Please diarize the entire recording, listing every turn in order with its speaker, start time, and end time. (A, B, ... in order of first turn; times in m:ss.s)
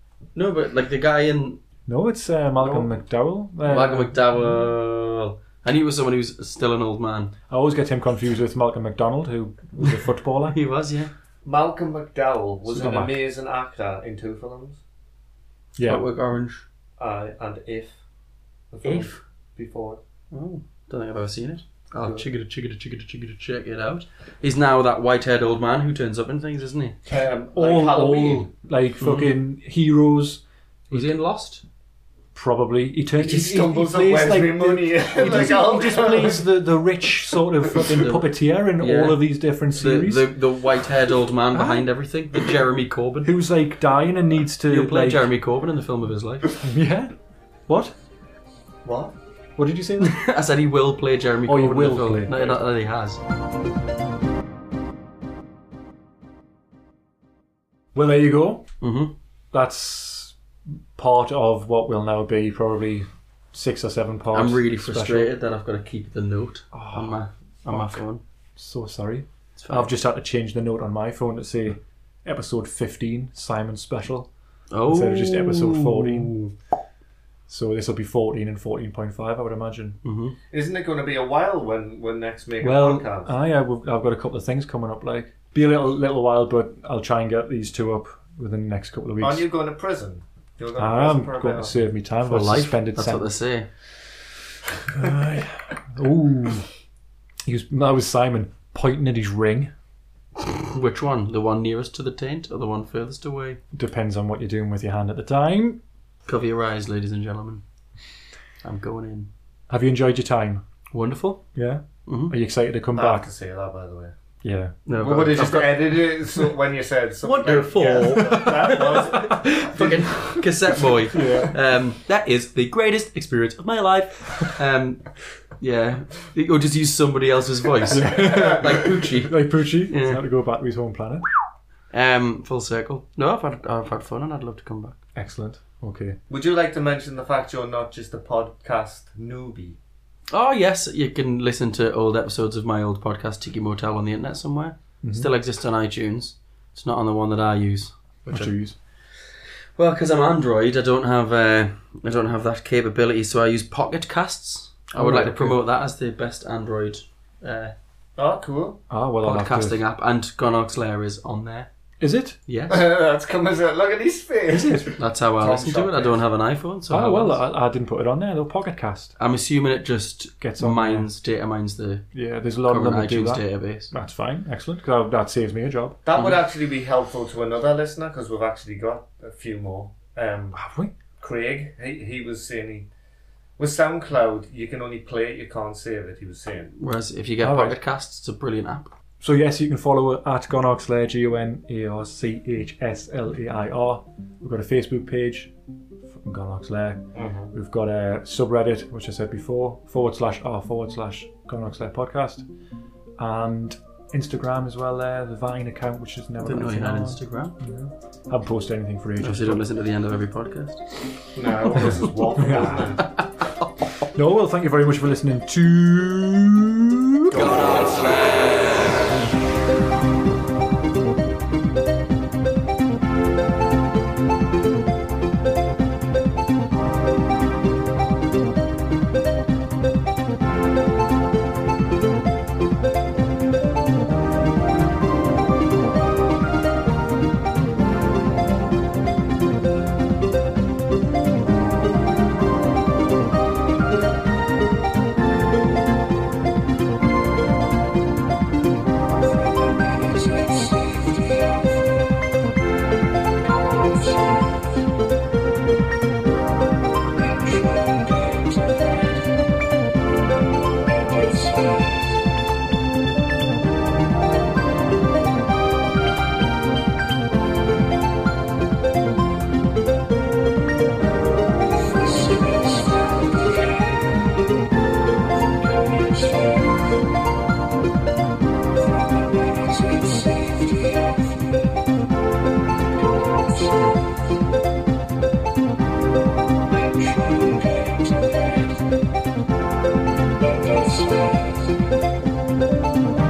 0:00.3-0:01.6 A
0:01.9-0:04.2 B
0:02.6-0:02.9 C
0:03.6-0:07.3 A
0:07.5-0:10.6 B
0:10.5-0:11.1 A
0:11.4-0:14.8 C
0:12.6-0:13.2 B
0:15.8-0:16.0 B
0:15.8-0:16.6 A
0:17.0-0:17.9 C
0:18.7-0:20.0 C
0:18.8-0:19.2 A
0:20.3-0:27.0 A
0:27.1-0:28.5 C
0:27.6-0:31.1 B
0:29.0-0:29.3 A
0:30.9-0:31.6 A
0:32.3-0:40.3 B
0:33.2-0:36.4 C
0:38.0-0:43.3 A
0:41.5-0:41.9 B
0:43.2-0:45.3 B
0:44.7-0:46.4 A
0:46.6-0:47.1 B
0:47.7-0:47.9 B
0:48.8-0:49.1 C
0:49.6-0:50.2 B
0:50.0-0:53.2 A
0:51.4-0:52.6 B
0:57.9-0:58.7 B
0:58.8-0:59.1 A
0:59.5-1:00.3 B
1:00.9-1:05.3 B
1:04.3-1:08.2 A
1:06.7-1:08.0 B
1:08.6-1:14.3 B
1:09.6-1:09.9 A
1:14.7-1:16.5 A
1:14.8-1:16.4 B
1:17.5-1:20.0 B
1:20.0-1:20.4 A
1:20.5-1:23.3 C
1:22.6-1:29.5 B
1:29.2-1:31.8 C
1:30.8-1:33.3 B
1:32.2-1:33.7 A
1:34.9-1:36.7 B
1:37.4-1:39.7 B
1:40.7-1:43.6 A
1:43.7-1:45.8 B
1:46.2-1:47.6 A
1:48.6-1:49.3 A
1:49.7-1:50.6 B
1:50.9-1:51.4 A
1:51.5-1:53.3 B
1:52.0-1:52.3 A
1:52.9-1:54.1 C
1:54.4-1:54.8 B
1:54.8-1:56.1 A
1:55.0-2:00.4 C
1:57.2-2:10.2 A
1:57.9-2:00.4 B
2:01.1-2:01.5 B
2:07.9-2:11.2 B
2:08.2-2:08.9 C
2:11.9-2:15.0 A
2:15.1-2:16.2 B
2:16.3-2:19.8 C
2:20.3-2:28.6 A
2:25.0-2:25.3 B
2:28.3-2:28.8 B
2:29.8-2:37.7 A
2:34.9-2:35.6 B
2:38.2-2:38.8 C
2:38.9-2:39.8 B
2:39.2-2:41.7 A
2:42.0-2:42.4 B
2:42.5-2:42.8 A
2:42.7-2:46.2 C
2:44.5-2:44.9 B
2:44.9-2:47.4 A
2:46.9-2:49.1 B
2:49.2-2:52.0 A
2:50.4-2:51.1 B
2:52.1-2:56.0 B
2:52.6-2:53.9 A
2:56.0-3:00.6 C
3:00.5-3:00.9 B
3:01.2-3:02.9 C
3:03.6-3:06.7 C
3:06.7-3:08.9 A
3:07.4-3:07.8 B
3:09.2-3:15.5 B
3:16.0-3:22.4 B
3:17.1-3:17.5 C
3:23.2-3:29.6 B
3:26.4-3:27.6 A
3:29.2-3:30.8 A
3:31.3-3:33.2 C
3:31.8-3:32.7 B
3:34.1-3:37.6 B
3:37.5-3:37.8 C